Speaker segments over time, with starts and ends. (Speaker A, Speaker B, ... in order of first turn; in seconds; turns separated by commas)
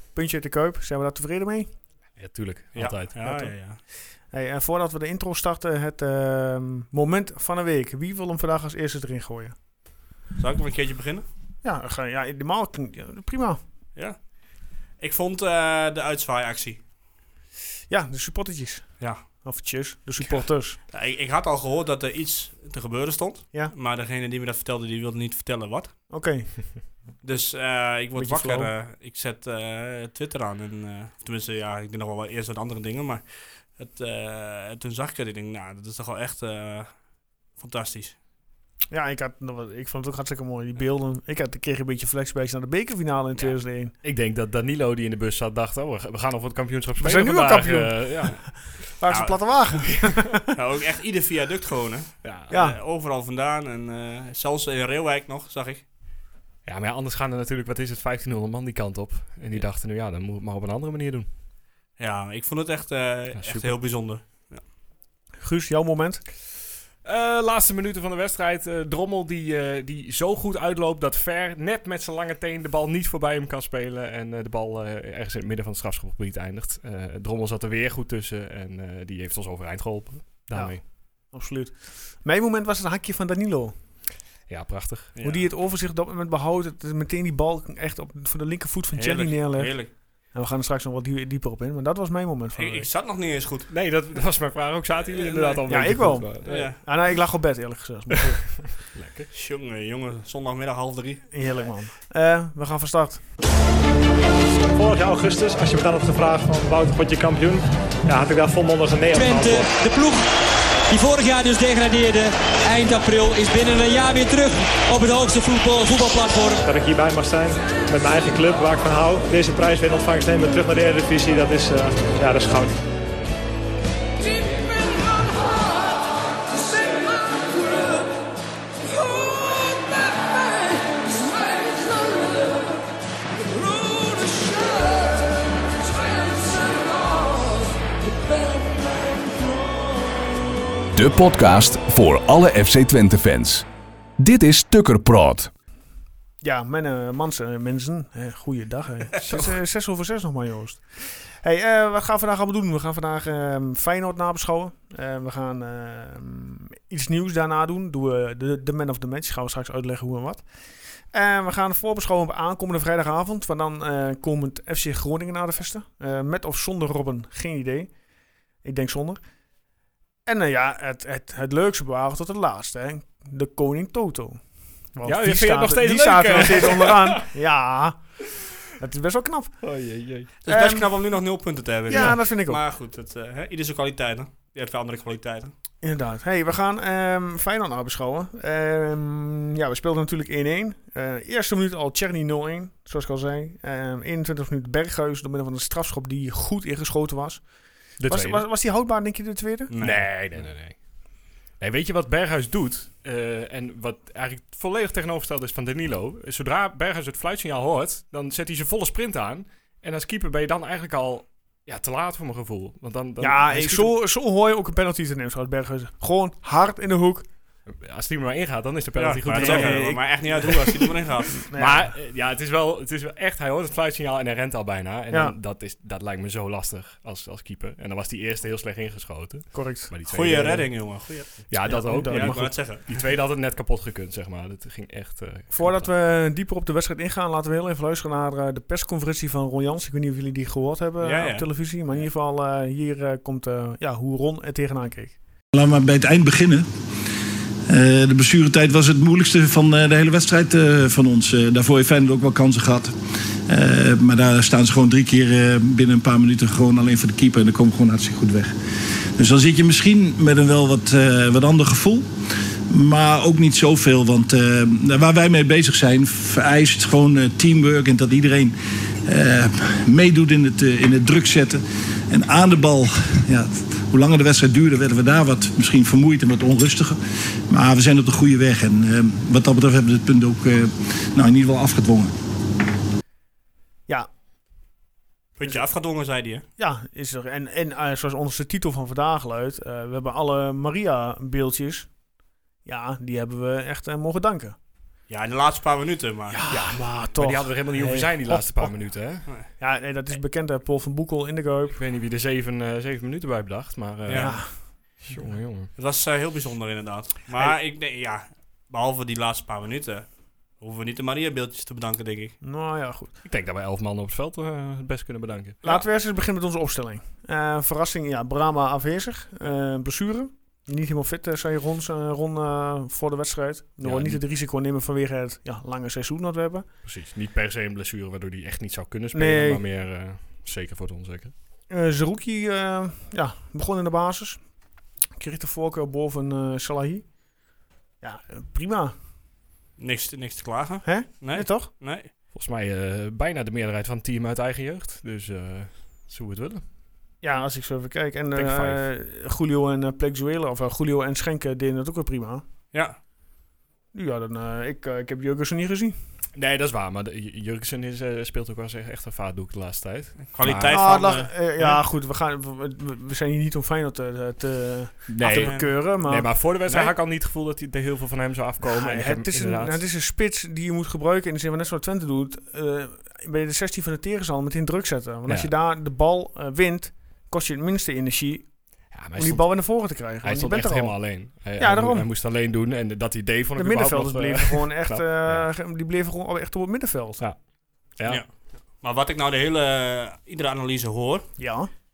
Speaker A: 0.1-1.7, Speaker B: 2.2-3.1, Speaker C: 2.7-3.8, Speaker A: 3.2-3.5, Speaker A: 4.3-9.5, Speaker C: 10.4-11.2, Speaker A: 11.6-13.6, Speaker C: 15.0-16.8, Speaker A: 17.9-20.8, Speaker C: 20.2-25.9, Speaker A: 26.1-26.5, Speaker C: 27.2-37.0, Speaker A: 28.2-28.7, Speaker C: 37.5-38.1, Speaker A: 38.9-43.9, Speaker B: 44.0-48.9, Speaker A: 47.0-50.5, Speaker C: 49.1-49.5, Speaker B: 49.9-50.3, Speaker C: 50.4-55.8, Speaker B: 52.2-52.5, Speaker A: 52.5-52.8, Speaker B: 56.6-61.3, Speaker C: 62.0-64.6, Speaker B: 63.3-63.7, Speaker A: 65.4-66.2, Speaker B: 67.0-80.8, Speaker A: 80.5-80.8, Speaker A: 81.3-83.7, Speaker B: 84.5-85.1, Speaker C: 85.2-85.5, Speaker A: 85.2-92.9, Speaker C: 88.9-89.9, Speaker C: 92.6-93.7, Speaker B: 93.7-96.7, Speaker C: 95.2-95.6, Speaker A: 95.7-98.6, Speaker C: 96.4-96.8, Speaker B: 98.8-99.3, Speaker C: 99.3-101.3, Speaker A: 101.3-103.2, Speaker D: 104.7-109.7, Speaker E: 109.1-110.3, Speaker E: 110.9-116.6, Speaker D: 116.6-122.8, Speaker F: 140.9-143.7, Speaker F: 144.2-145.5, Speaker A: 146.4-160.4, Speaker B: 149.3-149.5, Speaker A: 161.0-167.9, Speaker A: 168.6-169.2, Speaker A: 170.2-174.4, Speaker A: 174.9-178.1, Speaker B: 175.0-177.3, Speaker A: 178.7-179.5, Speaker B: 179.6-180.3, Speaker C: 180.4-185.5, Speaker A: 180.5-180.9, Speaker A: 181.9-182.6, Speaker A: 185.8-197.5, Speaker B: 198.0-198.4, Speaker A: 198.0-199.7, Speaker C: 199.7-200.4, Speaker B: 199.8-200.8, Speaker B: 201.6-213.9, Speaker A: 213.2-217.2, Speaker B: 217.7-220.8, Speaker C: 218.9-221.4, Speaker A: 219.3-220.0, Speaker A: 221.3-221.9, Speaker B: 221.5-230.8, Speaker A: 229.5-229.9, Speaker C: 230.1-233.0, Speaker B: 231.5-235.9, Speaker A: 231.6-232.5, Speaker A: 235.5-245.2, Speaker C: 241.0-241.5, Speaker G: 245.5-246.7, Speaker G: 247.7-258.5, Speaker G: 259.2-262.1, Speaker G: 262.7-282.1, Speaker C: 285.4-286.4, Speaker A: 286.6-291.9, Speaker A: 292.6-294.6, Speaker C: 295.1-296.4, Speaker B: 296.3-299.3, Speaker A: 296.5-298.8, Speaker A: 299.6-301.8, Speaker B: 301.7-305.7, Speaker C: 304.1-304.4, Speaker A: 304.1-305.3, Speaker C: 305.7-312.3, Speaker A: 312.4-313.1, Speaker B: 313.2-315.6, Speaker A: 315.6-326.6, Speaker B: 323.8-324.2, Speaker B: 326.8-331.3, Speaker A: 329.1-329.6, Speaker A: 331.7-334.4, Speaker A: 335.2-337.1, Speaker A: 338.0-338.9, Speaker C: 339.8-342.1, Speaker A: 340.8-341.7, Speaker B: 342.3-346.6, Speaker A: 347.2-352.4, Speaker B: 348.3-348.8, Speaker A: 353.9-355.9, Speaker B: 356.3-360.8, Speaker C: 360.3-361.3, Speaker A: 360.7-366.9, Speaker B: 365.1-369.8, Speaker C: 365.3-365.7, Speaker A: 368.6-378.5, Speaker B: 375.3-375.5, Speaker B: 378.9-379.6, Speaker A: 379.1-382.1, Speaker B: 380.2-385.5, Speaker A: 383.6-387.2, Speaker B: 387.9-388.2, Speaker C: 388.8-391.3, Speaker A: 391.4-391.7